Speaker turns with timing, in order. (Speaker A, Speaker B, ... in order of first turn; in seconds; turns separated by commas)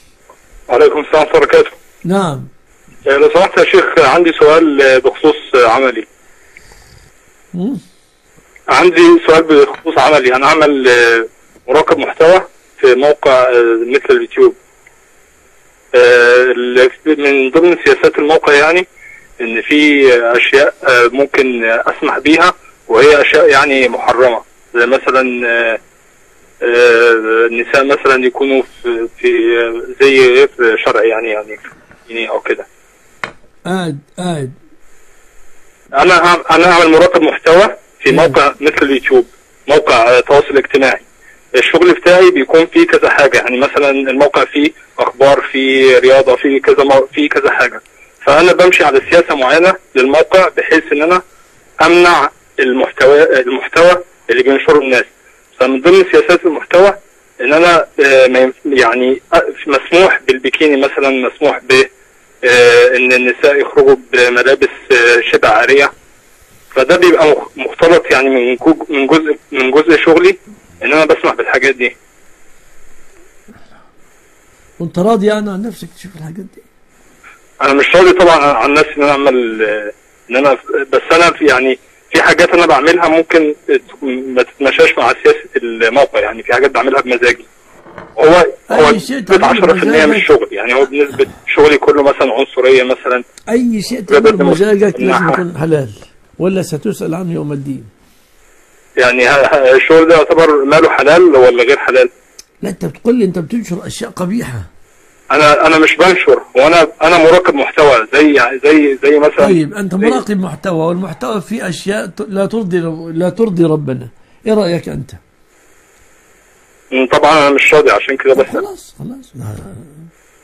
Speaker A: 0.7-1.7, Speaker B: 2.1-2.5, Speaker A: 3.1-6.1, Speaker B: 7.5-7.8, Speaker A: 8.7-14.6, Speaker A: 15.9-18.9, Speaker A: 19.4-25.8, Speaker A: 26.6-32.7, Speaker B: 33.7-34.5, Speaker A: 35.9-51.2, Speaker B: 38.1-38.4, Speaker A: 51.8-61.9, Speaker A: 62.4-65.9, Speaker A: 66.8-71.9, Speaker B: 74.8-76.7, Speaker A: 77.6-87.5, Speaker A: 88.2-93.2, Speaker B: 88.7-90.3, Speaker B: 93.5-97.9, Speaker A: 94.1-95.4, Speaker A: 99.0-102.1, Speaker B: 102.6-104.7, Speaker A: 105.3-110.2, Speaker B: 109.4-115.2, Speaker A: 116.9-118.6, Speaker B: 118.3-120.0